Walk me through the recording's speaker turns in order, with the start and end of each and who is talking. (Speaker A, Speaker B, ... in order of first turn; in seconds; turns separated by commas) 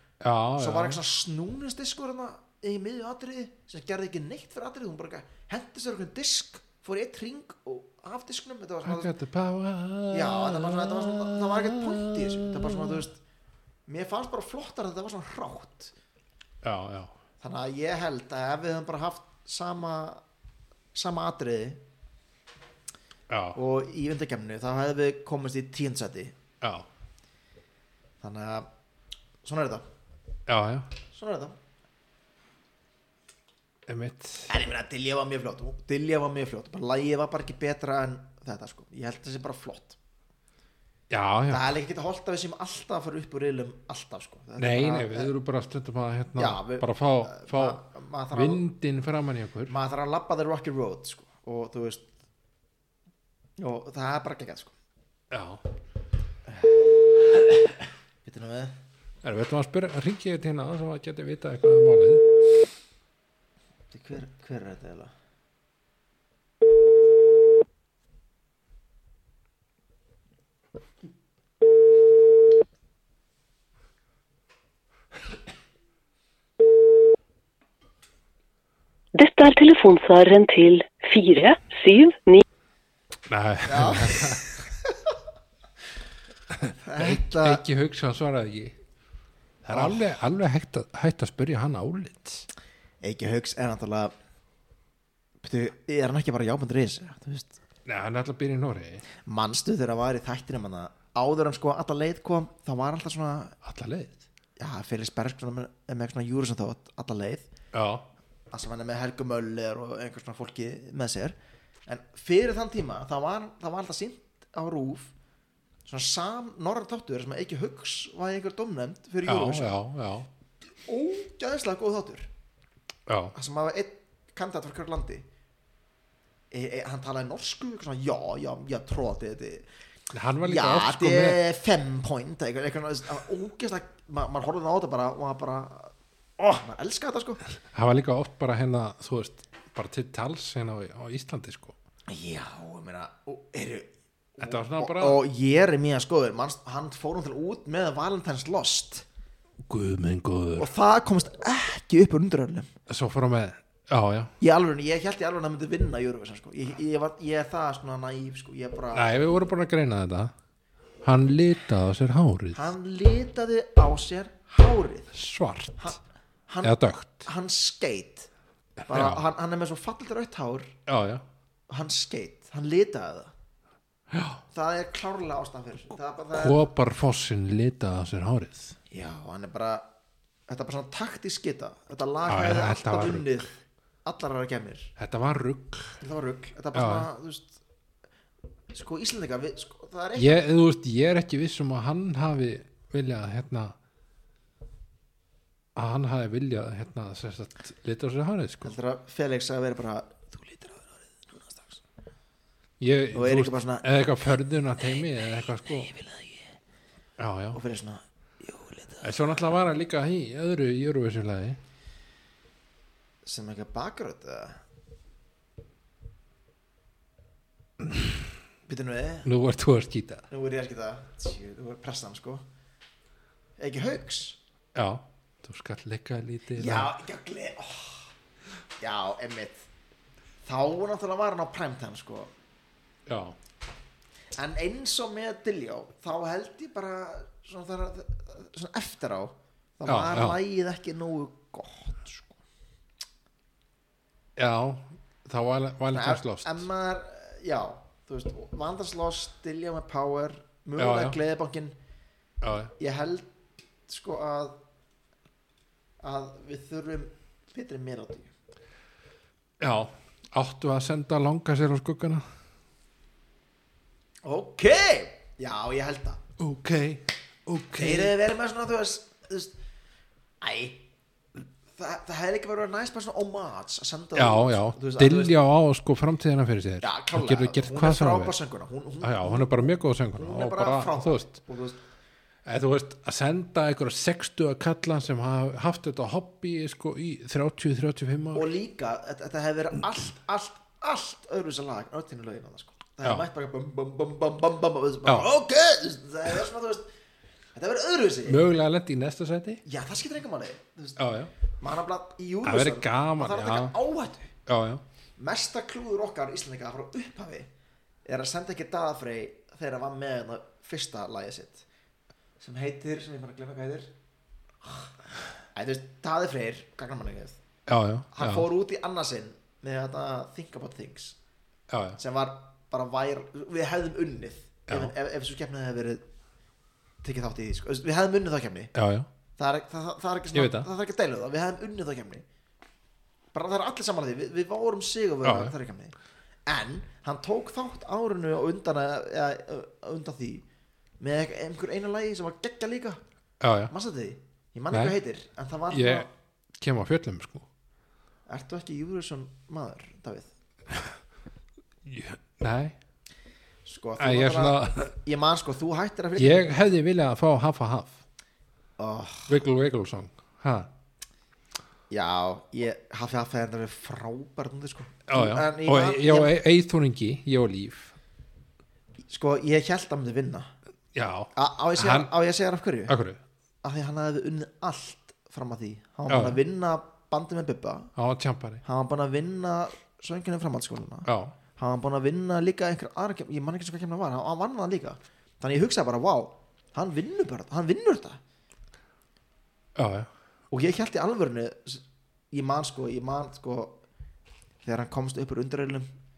Speaker A: 0.2-1.0, Speaker B: 0.6-9.1, Speaker A: 8.8-13.0, Speaker B: 10.1-13.2, Speaker B: 13.9-15.9, Speaker A: 16.6-17.1, Speaker B: 17.4-20.2, Speaker B: 20.9-21.8, Speaker A: 23.3-23.6, Speaker B: 23.5-26.3, Speaker A: 26.6-26.9, Speaker B: 28.2-28.7, Speaker B: 29.4-29.9, Speaker A: 30.5-30.9, Speaker B: 31.1-31.6, Speaker A: 33.9-34.6, Speaker B: 34.5-40.0, Speaker A: 41.1-41.7, Speaker B: 41.5-45.3, Speaker A: 44.6-49.7, Speaker B: 46.4-48.6, Speaker B: 49.7-52.1, Speaker B: 53.6-54.7, Speaker A: 55.3-55.6, Speaker B: 56.5-56.8, Speaker B: 58.2-58.8, Speaker A: 59.2-62.3, Speaker B: 63.9-65.1, Speaker C: 79.1-82.4, Speaker A: 83.3-84.6, Speaker B: 83.6-85.0, Speaker A: 86.5-88.8, Speaker B: 86.8-87.6, Speaker A: 89.6-92.5, Speaker B: 89.7-90.0, Speaker B: 93.0-94.1, Speaker B: 95.4-97.6, Speaker A: 97.8-99.0, Speaker B: 99.2-103.5, Speaker A: 103.6-104.2, Speaker B: 104.6-107.5, Speaker A: 107.7-108.1, Speaker B: 108.5-111.3, Speaker B: 111.8-115.1, Speaker B: 115.8-119.7, Speaker A: 119.2-120.3, Speaker B: 120.8-122.3, Speaker A: 123.1-123.3, Speaker B: 123.3-125.2, Speaker B: 126.5-129.7, Speaker A: 130.1-131.4, Speaker B: 130.4-137.4, Speaker A: 137.6-141.8, Speaker B: 142.1-149.1, Speaker A: 144.4-145.2, Speaker A: 149.7-150.7, Speaker B: 150.6-152.7, Speaker A: 152.9-154.3, Speaker B: 154.4-159.1, Speaker A: 158.9-160.3, Speaker A: 161.0-162.7, Speaker B: 162.5-165.1, Speaker A: 165.1-166.0, Speaker B: 165.8-168.3, Speaker A: 166.6-167.3, Speaker A: 168.9-169.2, Speaker B: 168.9-170.7, Speaker A: 170.9-171.2, Speaker B: 171.7-173.3, Speaker A: 174.1-174.4, Speaker B: 174.5-176.6, Speaker A: 176.3-178.8, Speaker B: 178.9-179.9, Speaker B: 180.5-184.9, Speaker A: 182.3-183.5, Speaker A: 185.0-186.0, Speaker B: 186.0-187.6, Speaker A: 186.7-187.1, Speaker B: 188.7-190.4, Speaker A: 190.2-193.8, Speaker A: 195.8-198.8, Speaker B: 198.6-201.8, Speaker A: 202.8-205.9, Speaker B: 203.1-203.9, Speaker B: 205.9-206.4, Speaker A: 207.2-207.6, Speaker B: 207.5-209.2, Speaker A: 209.0-211.6, Speaker B: 213.2-214.6, Speaker A: 217.8-218.2, Speaker B: 218.7-219.3, Speaker A: 219.2-220.2, Speaker B: 220.3-222.4, Speaker B: 223.6-224.4, Speaker A: 224.7-226.9, Speaker B: 226.6-228.1, Speaker B: 228.8-229.7, Speaker B: 230.4-232.3, Speaker A: 233.1-233.4, Speaker B: 234.4-242.4, Speaker A: 239.9-240.4, Speaker A: 244.3-246.7, Speaker B: 245.9-251.8, Speaker A: 250.8-251.2, Speaker A: 252.4-252.7, Speaker B: 252.8-253.3, Speaker B: 253.9-254.6, Speaker B: 256.0-258.3, Speaker A: 259.6-262.2, Speaker B: 264.2-266.2, Speaker A: 266.4-268.1, Speaker B: 267.8-269.6, Speaker B: 270.4-270.8, Speaker B: 271.7-275.4, Speaker A: 274.1-278.4, Speaker B: 276.8-279.5, Speaker A: 279.0-281.4, Speaker B: 280.1-281.8, Speaker A: 282.4-288.5, Speaker B: 288.3-296.9, Speaker B: 297.5-298.4, Speaker A: 298.2-299.6, Speaker B: 299.6-301.0, Speaker A: 301.0-301.3, Speaker B: 301.6-304.3, Speaker A: 302.4-303.7, Speaker A: 304.4-304.8, Speaker B: 305.2-307.5, Speaker B: 308.1-311.6, Speaker B: 312.4-313.9, Speaker B: 315.5-317.4, Speaker A: 317.6-318.5, Speaker B: 318.1-321.1, Speaker A: 321.7-322.0, Speaker B: 321.9-326.0, Speaker A: 324.7-324.9, Speaker B: 327.0-328.7, Speaker A: 328.7-329.1, Speaker B: 329.4-332.2, Speaker A: 330.3-330.7, Speaker B: 333.3-335.9, Speaker A: 335.2-335.5, Speaker B: 336.5-340.4, Speaker B: 341.0-343.0, Speaker A: 343.4-343.7, Speaker B: 343.7-346.1, Speaker A: 344.7-344.9, Speaker A: 345.7-346.1, Speaker A: 346.6-347.5, Speaker B: 348.3-350.3, Speaker A: 351.8-352.8, Speaker B: 353.6-356.6, Speaker A: 354.0-354.9, Speaker A: 356.2-358.0, Speaker B: 358.8-359.4, Speaker A: 359.3-360.7, Speaker B: 361.9-366.3, Speaker A: 365.1-367.9, Speaker B: 369.1-370.5, Speaker A: 370.9-372.1, Speaker B: 371.3-372.9, Speaker A: 372.9-373.2, Speaker B: 373.6-377.9, Speaker A: 376.1-376.4, Speaker A: 377.9-378.6, Speaker B: 378.6-388.2, Speaker A: 381.0-381.3, Speaker A: 389.8-390.1, Speaker B: 390.5-393.8, Speaker B: 394.6-395.9